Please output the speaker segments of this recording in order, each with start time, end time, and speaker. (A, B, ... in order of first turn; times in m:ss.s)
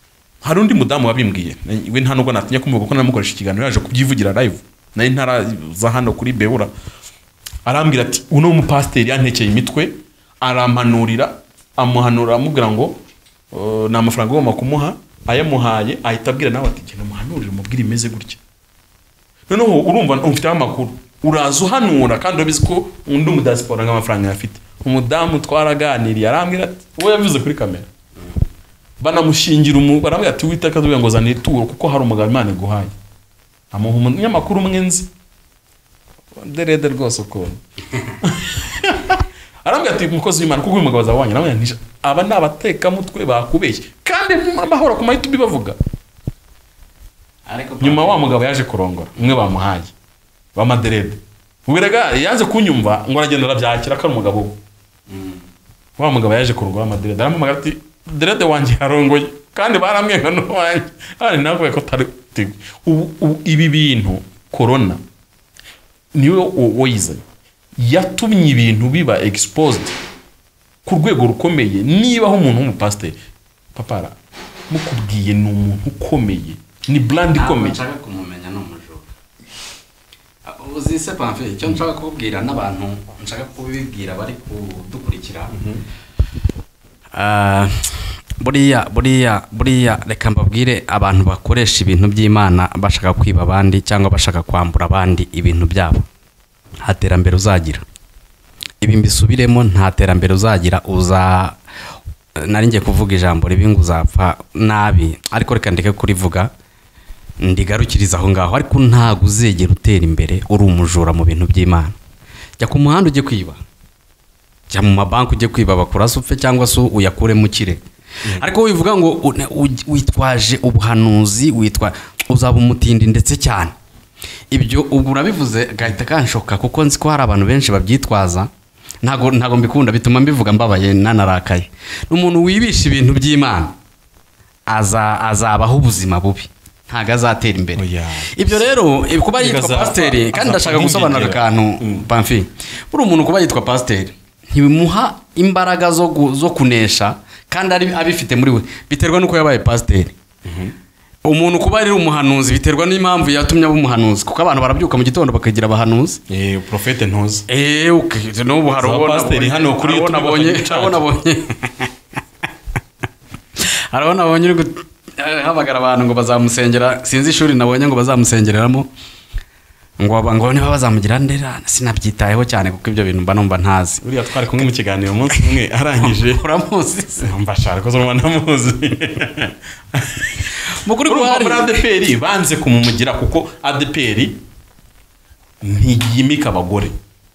0:00.4-0:06.7 A
0:07.6-0:13.0 A
0:13.5-0:18.4 A
0:19.5-0:27.9 A
0:29.0-0:32.9 A
0:33.7-0:35.1 A
0:36.4-0:37.6 A
0:38.2-0:45.8 A
0:47.5-0:48.3 B
0:47.8-0:49.9 A
0:50.5-0:54.6 A
0:55.1-0:55.4 B
0:56.0-1:05.0 A
1:06.1-1:07.2 A
1:07.8-1:09.9 A
1:10.8-1:13.2 A
1:13.7-1:14.2 A
1:14.7-1:17.8 A
1:17.3-1:19.0 B
1:20.4-1:25.5 B
1:25.5-1:25.8 A
1:27.1-1:36.0 B
1:36.8-1:37.8 B
1:38.8-1:41.6 B
1:42.4-1:46.5 B
1:47.4-1:52.0 B
1:52.6-1:53.6 B
1:54.7-1:57.8 B
1:58.3-2:03.7 B
2:04.5-2:08.5 B
2:09.0-2:13.7 B
2:14.7-2:30.1 B
2:17.8-2:18.7 A
2:19.4-2:22.0 A
2:30.4-2:30.7 A
2:31.2-2:36.2 B
2:36.3-2:37.4 A
2:37.5-2:41.9 B
2:38.8-2:41.2 A
2:43.6-2:48.9 B
2:50.0-2:54.0 B
2:54.0-2:56.4 A
2:56.0-2:57.3 B
2:57.2-3:00.5 A
3:00.7-3:01.8 B
3:01.0-3:04.4 A
3:05.6-3:06.9 A